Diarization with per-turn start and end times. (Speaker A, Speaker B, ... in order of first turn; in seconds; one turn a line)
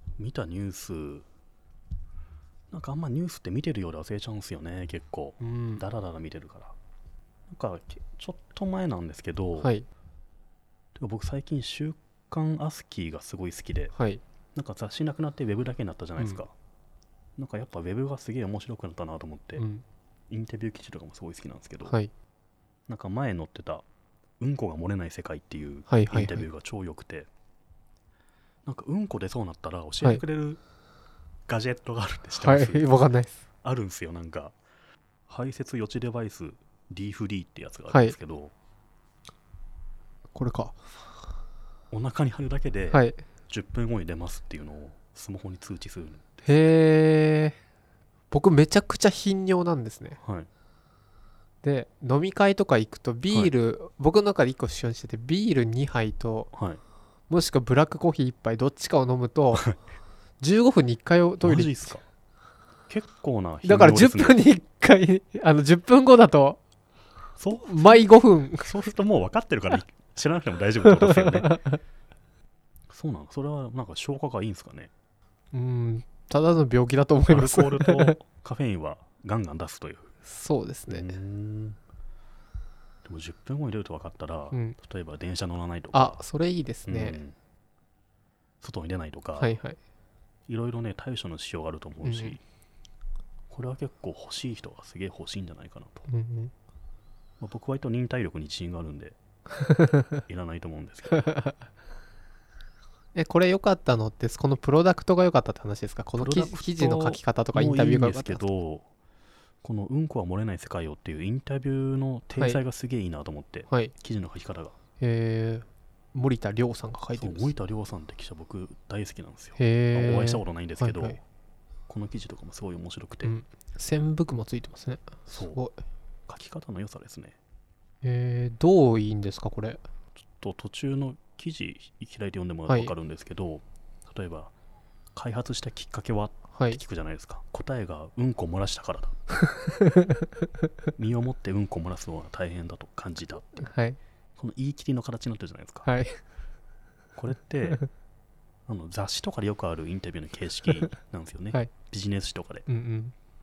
Speaker A: 0.2-1.3
Speaker A: 2.7-6.8
Speaker B: 5.4-5.8
Speaker A: 7.5-9.7
Speaker B: 9.6-9.9
Speaker A: 11.0-13.9
Speaker B: 13.9-14.2
Speaker A: 14.6-16.5
Speaker A: 17.4-19.6
Speaker B: 19.6-19.8
Speaker A: 20.3-22.0
Speaker A: 22.9-23.9
Speaker A: 24.4-27.3
Speaker B: 25.9-26.5
Speaker A: 28.6-30.6
Speaker A: 31.5-33.0
Speaker B: 32.4-33.4
Speaker A: 33.6-34.5
Speaker A: 35.3-38.5
Speaker B: 37.9-38.1
Speaker B: 40.3-40.8
Speaker A: 41.9-46.5
Speaker B: 42.9-43.2
Speaker B: 46.5-47.5
Speaker B: 48.3-50.2
Speaker A: 50.2-50.5
Speaker B: 51.6-56.5
Speaker A: 56.5-56.8
Speaker B: 57.3-59.6
Speaker B: 60.4-61.8
Speaker A: 61.4-62.0
Speaker A: 62.9-64.4
Speaker B: 63.6-66.6
Speaker A: 67.4-71.5
Speaker B: 67.7-68.9
Speaker B: 70.8-71.8
Speaker A: 72.9-74.9
Speaker B: 75.5-78.2
Speaker A: 77.3-80.1
Speaker B: 80.2-81.1
Speaker A: 80.9-81.8
Speaker A: 83.0-86.2
Speaker B: 84.5-84.8
Speaker B: 85.9-87.2
Speaker A: 86.9-87.4
Speaker A: 88.6-89.6
Speaker B: 89.4-89.8
Speaker A: 90.5-92.4
Speaker B: 92.0-92.4
Speaker A: 93.5-96.1
Speaker B: 96.1-96.5
Speaker A: 97.4-99.2
Speaker B: 99.6-100.2
Speaker A: 100.3-101.2
Speaker B: 101.1-101.5
Speaker B: 103.2-108.4
Speaker A: 106.2-108.9
Speaker A: 109.6-114.8
Speaker B: 115.0-117.5
Speaker A: 117.2-121.2
Speaker B: 119.6-121.2
Speaker A: 121.9-123.4
Speaker B: 123.2-125.8
Speaker A: 125.3-125.6
Speaker A: 126.3-127.4
Speaker B: 128.0-129.8
Speaker A: 130.3-134.5
Speaker B: 132.7-132.9
Speaker A: 135.2-139.2
Speaker B: 136.5-136.8
Speaker B: 139.5-140.2
Speaker A: 141.0-143.7
Speaker B: 143.6-144.0
Speaker A: 144.4-145.9
Speaker B: 145.8-146.2
Speaker A: 147.2-147.8
Speaker A: 148.7-152.7
Speaker B: 152.7-153.2